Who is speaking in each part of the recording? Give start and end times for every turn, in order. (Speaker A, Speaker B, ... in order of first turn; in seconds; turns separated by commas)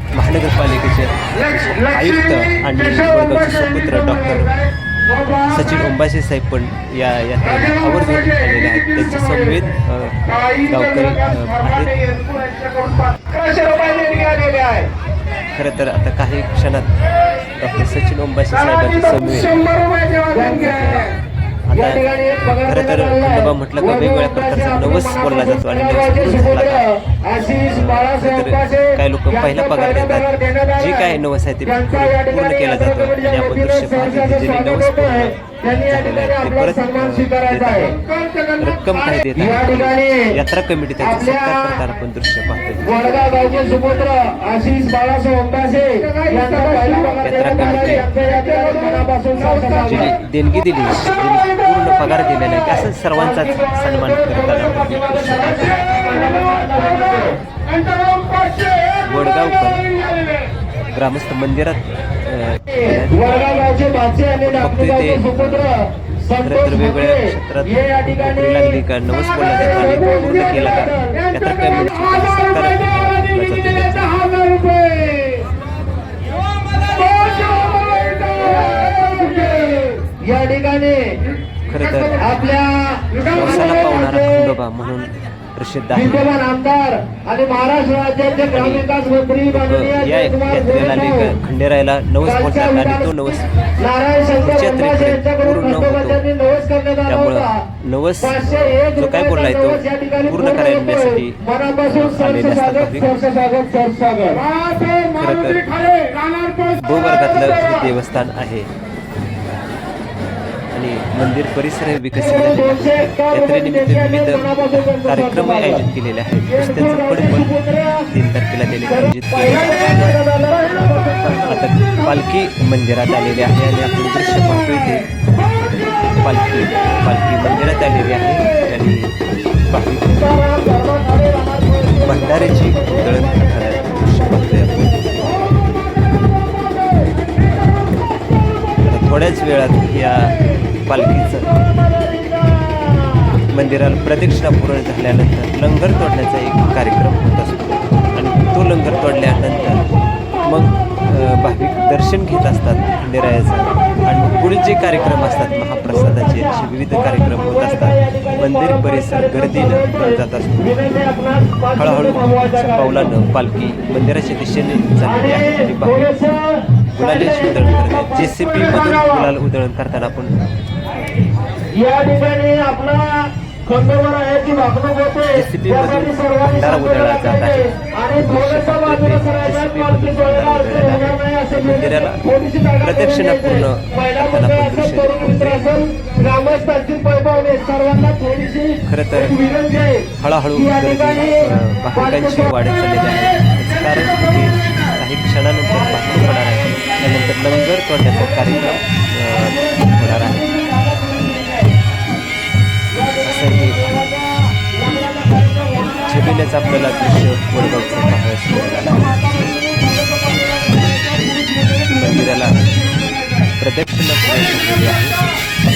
Speaker A: 0.1-4.5, Speaker B: 1.6-5.7, Speaker A: 5.4-12.0, Speaker B: 7.5-9.6, Speaker B: 10.3-14.9, Speaker A: 15.5-19.7, Speaker B: 18.7-21.1, Speaker A: 20.4-26.9, Speaker B: 21.8-40.4, Speaker A: 27.7-38.0, Speaker A: 38.6-43.2, Speaker B: 41.0-41.8, Speaker B: 42.8-50.1, Speaker A: 47.2-48.1, Speaker A: 49.5-57.1, Speaker B: 53.2-59.0, Speaker A: 59.0-59.9, Speaker A: 60.9-63.7, Speaker B: 62.8-68.8, Speaker A: 64.2-74.3, Speaker B: 69.4-71.9, Speaker B: 74.2-75.5, Speaker B: 76.9-81.3, Speaker A: 81.7-82.3, Speaker B: 81.9-84.3, Speaker A: 83.2-86.3, Speaker B: 86.0-91.3, Speaker A: 88.5-88.9, Speaker A: 89.5-93.7, Speaker B: 92.3-93.1, Speaker B: 93.8-97.6, Speaker A: 94.4-96.2, Speaker A: 97.1-103.2, Speaker B: 98.2-107.7, Speaker A: 105.1-105.7, Speaker A: 106.8-108.7, Speaker A: 110.7-120.2, Speaker B: 112.2-115.8, Speaker B: 116.5-118.1, Speaker B: 119.3-121.6, Speaker A: 121.4-125.1, Speaker A: 126.1-129.2, Speaker A: 129.7-130.4, Speaker B: 130.2-134.2, Speaker A: 131.9-135.1, Speaker A: 138.8-141.6, Speaker B: 142.6-143.1, Speaker A: 143.5-149.8, Speaker A: 150.4-160.7, Speaker B: 156.0-163.1, Speaker A: 161.8-166.1, Speaker B: 165.1-169.3, Speaker A: 166.9-170.3, Speaker B: 171.7-194.9, Speaker A: 175.3-177.7, Speaker A: 178.2-182.2, Speaker A: 182.8-185.8, Speaker A: 188.8-189.4, Speaker A: 190.2-200.6, Speaker B: 195.8-197.4, Speaker B: 198.1-198.8, Speaker B: 199.4-201.8, Speaker B: 202.9-206.9, Speaker A: 203.2-204.0, Speaker A: 206.1-209.1, Speaker B: 208.7-213.5, Speaker A: 211.9-212.6, Speaker A: 213.6-215.3